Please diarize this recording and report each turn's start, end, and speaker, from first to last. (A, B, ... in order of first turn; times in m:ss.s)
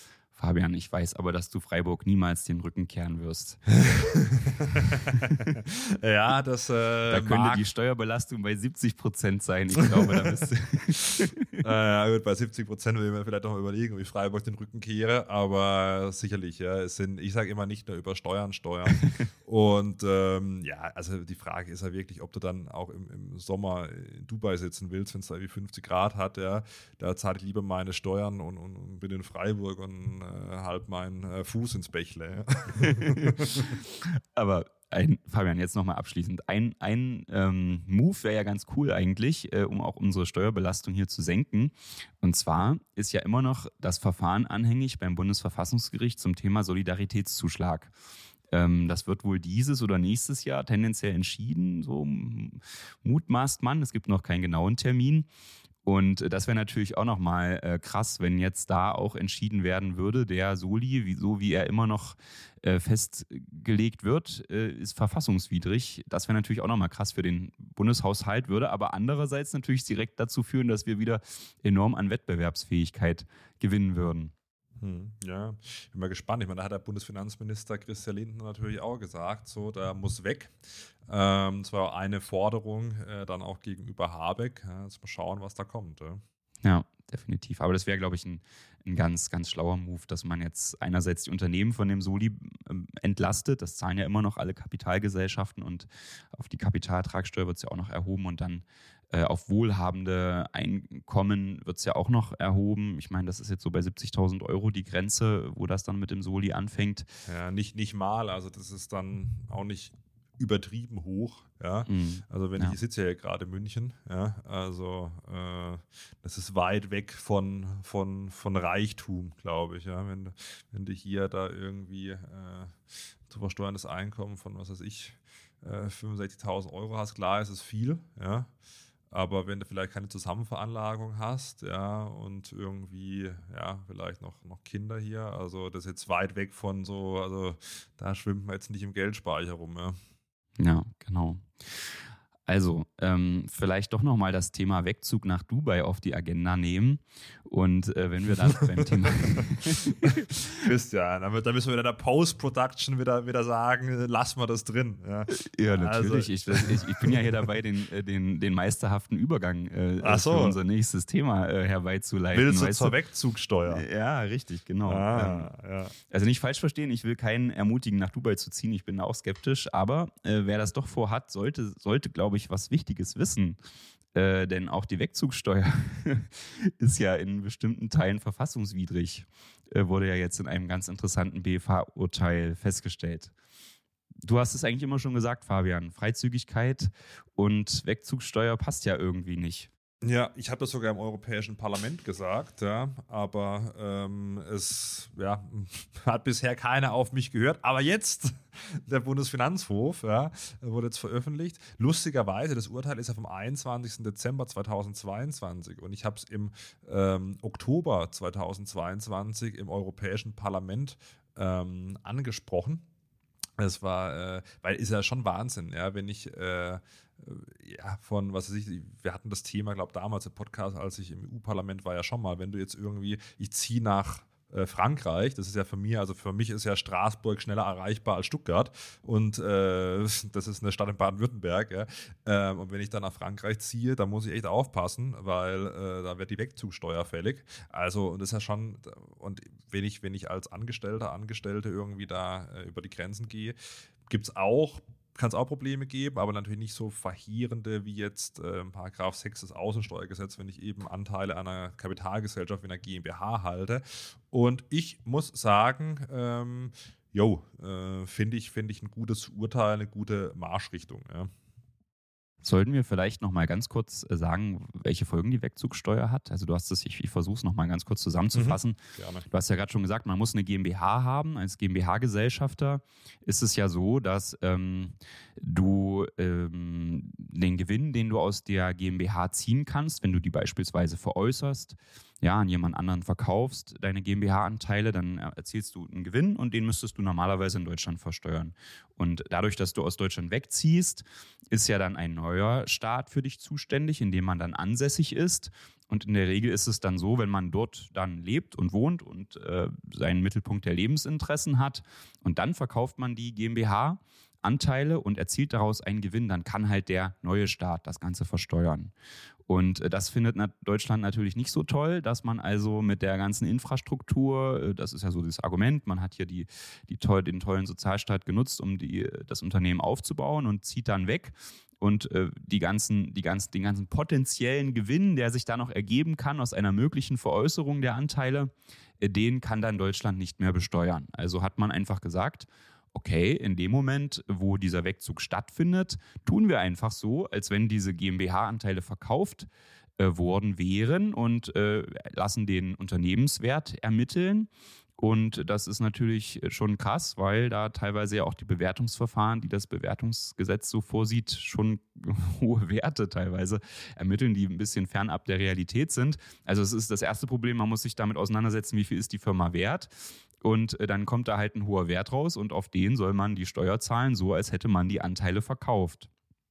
0:00.3-0:03.6 A
0:03.7-0:07.6 B
0:07.1-0:11.6 A
0:09.7-0:33.8 B
0:18.9-0:19.2 A
0:32.9-0:47.9 A
0:48.5-0:55.2 A
0:55.8-1:14.3 A
1:14.8-1:26.2 B
1:26.6-1:47.1 A
1:47.3-2:08.5 B
1:51.8-1:52.8 A
2:09.1-2:20.0 B
2:20.6-2:30.4 A
2:28.6-2:37.5 B
2:35.3-2:42.9 A
2:40.0-2:40.6 B
2:42.3-2:43.8 B
2:43.7-2:45.5 A
2:44.8-2:45.9 B
2:46.1-2:53.6 A
2:54.1-3:03.3 A
3:04.2-3:09.7 A
3:10.0-3:32.8 B
3:33.6-4:21.3 B
4:22.4-4:28.8 A
4:28.3-4:29.3 B
4:29.3-5:08.9 A
5:09.5-6:06.1 A